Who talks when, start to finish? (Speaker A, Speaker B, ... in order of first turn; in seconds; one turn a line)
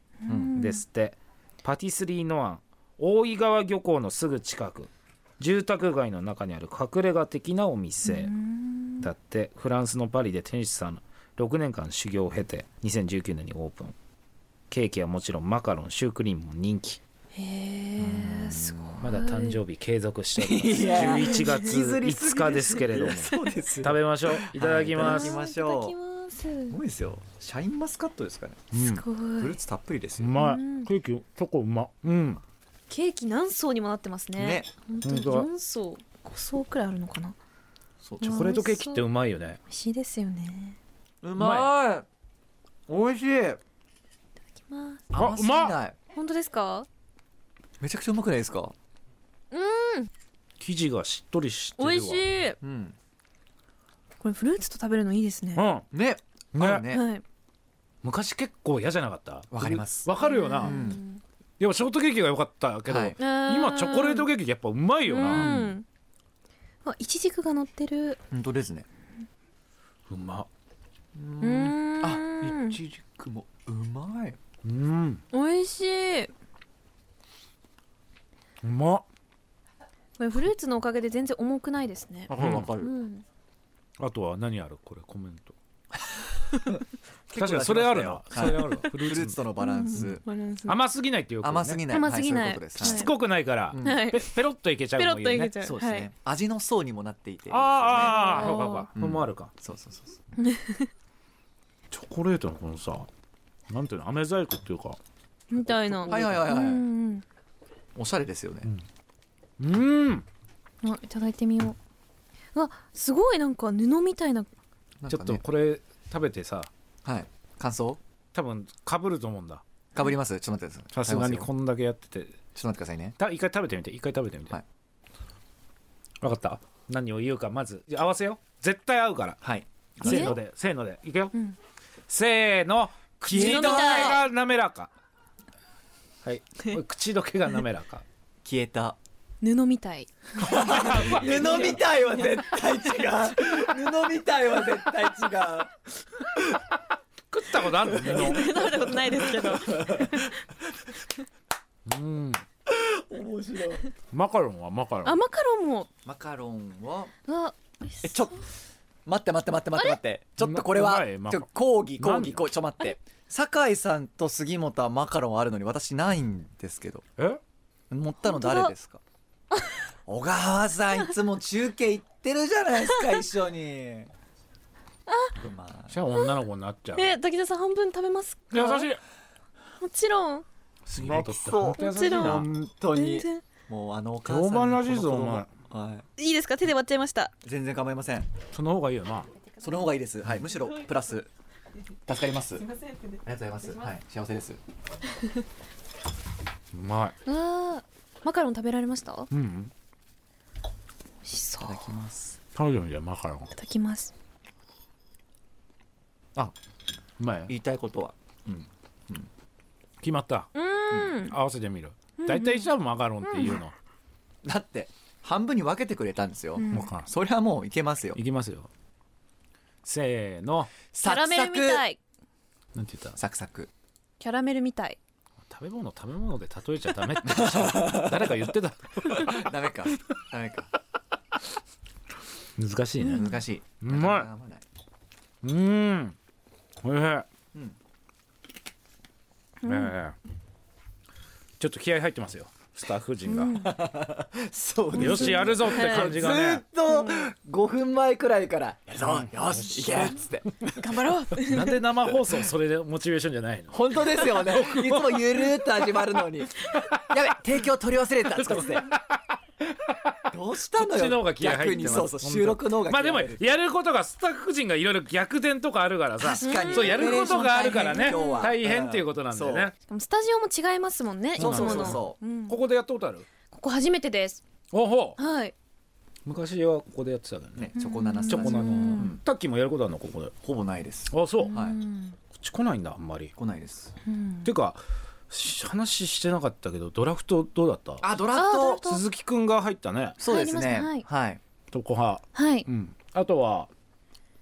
Speaker A: 0.2-0.8
Speaker B: 0.3-0.6
Speaker C: 0.5-8.3
Speaker A: 8.0-9.1
Speaker C: 9.0-14.0
Speaker C: 14.7-17.0
Speaker A: 17.3-19.6
Speaker B: 18.0-19.1
Speaker C: 19.0-25.4
Speaker B: 20.4-26.0
Speaker A: 20.8-21.7
Speaker A: 25.0-26.8
Speaker B: 26.7-28.8
Speaker C: 28.7-29.0
Speaker A: 28.8-29.6
Speaker B: 29.4-30.4
Speaker C: 30.2-32.4
Speaker A: 30.4-30.9
Speaker A: 32.9-37.4
Speaker B: 34.4-34.7
Speaker C: 35.0-35.5
Speaker B: 38.0-38.6
Speaker A: 38.2-39.0
Speaker C: 38.2-39.6
Speaker A: 39.7-40.8
Speaker B: 41.2-42.1
Speaker C: 41.4-41.7
Speaker B: 42.9-43.6
Speaker A: 44.6-45.1
Speaker B: 45.1-46.0
Speaker C: 45.1-45.8
Speaker A: 46.1-46.9
Speaker B: 47.8-48.8
Speaker A: 49.5-50.1
Speaker C: 50.6-52.3
Speaker A: 51.8-52.6
Speaker B: 52.6-53.0
Speaker A: 54.2-55.6
Speaker C: 55.5-55.9
Speaker B: 55.9-57.1
Speaker C: 56.5-56.9
Speaker A: 56.9-57.2
Speaker C: 58.0-60.8
Speaker B: 59.5-60.1
Speaker A: 60.2-61.2
Speaker B: 60.6-61.0
Speaker C: 61.6-65.6
Speaker B: 62.9-63.2
Speaker A: 63.2-64.3
Speaker A: 65.1-65.9
Speaker B: 65.3-65.8
Speaker A: 66.8-68.2
Speaker B: 68.3-68.9
Speaker C: 70.1-70.5
Speaker B: 71.2-74.4
Speaker A: 71.4-72.8
Speaker C: 74.7-75.2
Speaker A: 75.3-76.3
Speaker C: 78.6-79.1
Speaker A: 80.2-83.2
Speaker B: 82.3-83.0
Speaker C: 82.4-82.7
Speaker C: 84.0-85.5
Speaker B: 87.3-90.2
Speaker C: 87.3-91.8
Speaker A: 89.6-90.8
Speaker B: 91.4-93.1
Speaker A: 91.9-93.1
Speaker C: 92.8-95.5
Speaker B: 93.7-94.0
Speaker A: 93.8-94.4
Speaker A: 95.0-96.1
Speaker B: 95.6-100.2
Speaker C: 97.5-99.5
Speaker A: 98.0-98.9
Speaker A: 100.4-100.9
Speaker C: 101.9-103.1
Speaker C: 103.7-105.0
Speaker A: 105.5-107.2
Speaker C: 105.6-106.5
Speaker B: 106.1-106.8
Speaker B: 108.0-108.7
Speaker C: 109.6-110.3
Speaker A: 110.8-111.8
Speaker A: 112.5-114.5
Speaker B: 115.0-115.4
Speaker C: 115.1-116.7
Speaker B: 117.0-118.0
Speaker C: 118.3-119.6
Speaker B: 119.9-121.5
Speaker C: 120.9-122.4
Speaker B: 122.5-123.2
Speaker C: 123.2-124.6
Speaker C: 126.2-129.4
Speaker B: 129.4-130.4
Speaker C: 130.0-131.3
Speaker A: 130.0-130.4
Speaker C: 132.1-134.9
Speaker B: 133.2-134.2
Speaker A: 133.3-134.3
Speaker C: 136.2-138.0
Speaker B: 138.4-139.0
Speaker A: 139.4-143.1
Speaker B: 140.4-145.7
Speaker C: 140.5-141.8
Speaker C: 147.3-148.4
Speaker B: 147.9-150.3
Speaker A: 148.0-150.4
Speaker C: 151.9-152.4
Speaker B: 152.7-153.9
Speaker C: 154.1-155.2
Speaker A: 155.0-155.9
Speaker B: 156.1-157.1
Speaker A: 157.3-158.3
Speaker B: 158.0-158.4
Speaker B: 159.1-167.1
Speaker C: 160.4-162.4
Speaker B: 167.9-169.0
Speaker A: 168.2-168.7
Speaker A: 169.5-169.9
Speaker B: 170.1-174.1
Speaker A: 172.9-173.2
Speaker A: 175.1-175.3
Speaker B: 175.4-176.0
Speaker C: 175.9-177.2
Speaker A: 176.9-178.9
Speaker C: 178.5-179.0
Speaker A: 179.8-180.4
Speaker C: 180.9-182.5
Speaker B: 181.0-186.1
Speaker A: 181.7-183.4
Speaker C: 184.3-185.5
Speaker A: 186.2-187.3
Speaker B: 187.4-188.3
Speaker C: 188.5-189.3
Speaker B: 189.6-191.3
Speaker B: 192.1-192.7
Speaker A: 192.8-193.2
Speaker B: 193.2-194.6
Speaker C: 196.7-197.2
Speaker A: 197.3-199.3
Speaker C: 199.3-199.7
Speaker A: 201.2-201.9
Speaker B: 201.6-202.4
Speaker C: 202.6-203.5
Speaker A: 203.5-204.1
Speaker C: 207.2-207.5
Speaker B: 207.5-209.3
Speaker C: 210.0-210.5
Speaker A: 210.5-211.4
Speaker B: 210.9-211.2
Speaker C: 211.2-213.7
Speaker A: 212.2-212.7
Speaker A: 213.2-213.6
Speaker B: 214.4-218.2
Speaker A: 216.6-216.9
Speaker C: 216.7-217.1
Speaker C: 218.1-218.7
Speaker C: 219.8-220.7
Speaker B: 220.9-221.8
Speaker A: 221.0-222.0
Speaker C: 222.8-223.2
Speaker B: 223.2-223.7
Speaker A: 224.2-225.0
Speaker C: 225.5-229.5
Speaker B: 227.3-228.3
Speaker B: 229.0-230.7
Speaker C: 232.6-233.3
Speaker A: 233.0-233.4
Speaker B: 233.0-234.7
Speaker C: 233.8-234.3
Speaker C: 235.4-236.2
Speaker C: 236.8-237.3
Speaker A: 239.6-239.9
Speaker C: 239.7-240.2
Speaker C: 241.6-243.7
Speaker A: 243.3-243.7
Speaker B: 243.6-250.7
Speaker A: 244.9-246.4
Speaker C: 244.9-246.6
Speaker A: 246.9-247.2
Speaker C: 249.0-250.2
Speaker A: 250.7-251.8
Speaker C: 251.4-255.7
Speaker B: 253.7-258.9
Speaker C: 258.4-259.2
Speaker C: 259.7-269.7
Speaker B: 260.3-263.4
Speaker B: 266.2-269.7
Speaker A: 266.4-268.5
Speaker A: 269.9-272.6
Speaker B: 271.4-272.2
Speaker C: 271.4-273.3
Speaker A: 273.5-274.4
Speaker C: 274.7-275.2
Speaker A: 275.2-275.5
Speaker C: 276.2-277.8
Speaker B: 277.6-279.2
Speaker A: 277.8-279.2
Speaker C: 278.3-280.3
Speaker B: 280.4-281.8
Speaker C: 281.1-281.6
Speaker A: 281.4-282.2
Speaker C: 282.3-283.3
Speaker B: 283.4-283.9
Speaker A: 284.1-284.5
Speaker C: 284.4-288.1
Speaker B: 288.0-288.9
Speaker A: 288.4-289.0
Speaker C: 288.9-290.2
Speaker B: 290.2-291.4
Speaker A: 290.2-291.1
Speaker C: 291.7-293.7
Speaker A: 292.4-292.7